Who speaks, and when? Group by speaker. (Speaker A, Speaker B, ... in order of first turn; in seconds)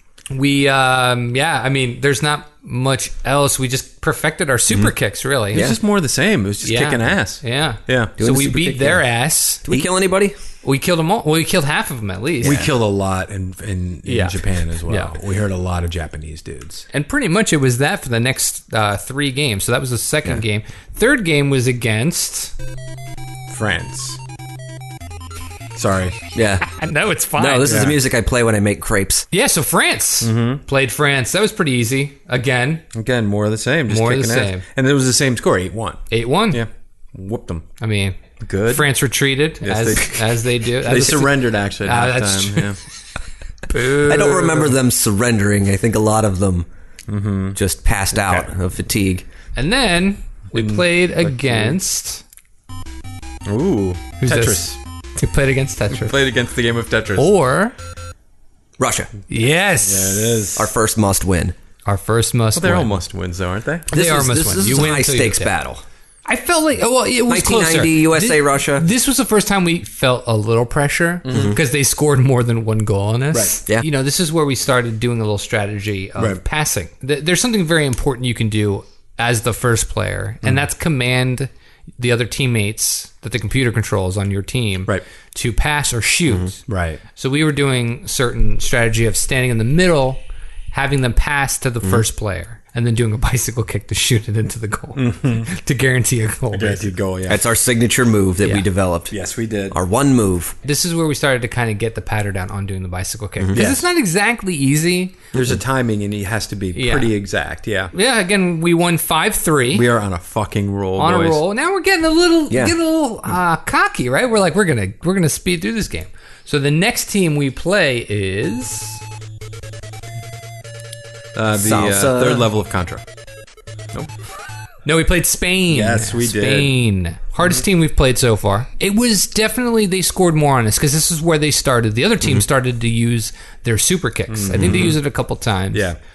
Speaker A: 0.3-5.8, 6.6-9.8, 10.6-12.7, 14.1-15.2, 16.9-22.5, 26.7-27.9, 29.3-32.9, 33.9-34.6, 36.1-36.6, 37.8-42.8, 43.7-44.7, 49.6-52.2, 54.2-56.2, 57.2-57.7, 59.3-60.5, 61.9-62.9, 63.9-65.5, 66.3-86.6, 87.2-90.2, 90.7-96.9, 100.6-105.2, 106.8-107.1, 107.9-109.9, 111.0-119.0, 124.8-135.9
Speaker B: 5.5-8.2, 12.4-16.9, 23.5-24.2, 25.8-26.2, 27.6-28.0, 30.2-30.6, 32.9-37.7, 38.4-38.9, 39.6-40.3, 40.8-42.8, 47.1-47.6, 48.1-48.5, 50.5-51.8, 53.5-54.8, 55.9-57.3, 59.8-60.7, 62.5-63.9, 71.3-71.6, 86.7-87.0, 95.0-95.5, 96.5-97.4, 99.1-99.8, 103.5-103.9, 105.3-107.9, 109.7-111.4, 121.3-123.0, 125.7-126.7, 134.3-135.0, 135.7-136.0
Speaker C: 8.2-9.0, 9.7-10.4, 12.4-12.7, 26.4-26.7, 27.4-29.3, 43.9-46.7, 47.6-49.3, 58.8-59.1, 60.6-61.5, 63.9-65.8, 67.3-68.9, 71.3-71.6, 97.3-99.1, 99.7-100.5, 103.4-103.7, 112.5-112.8, 121.6-122.5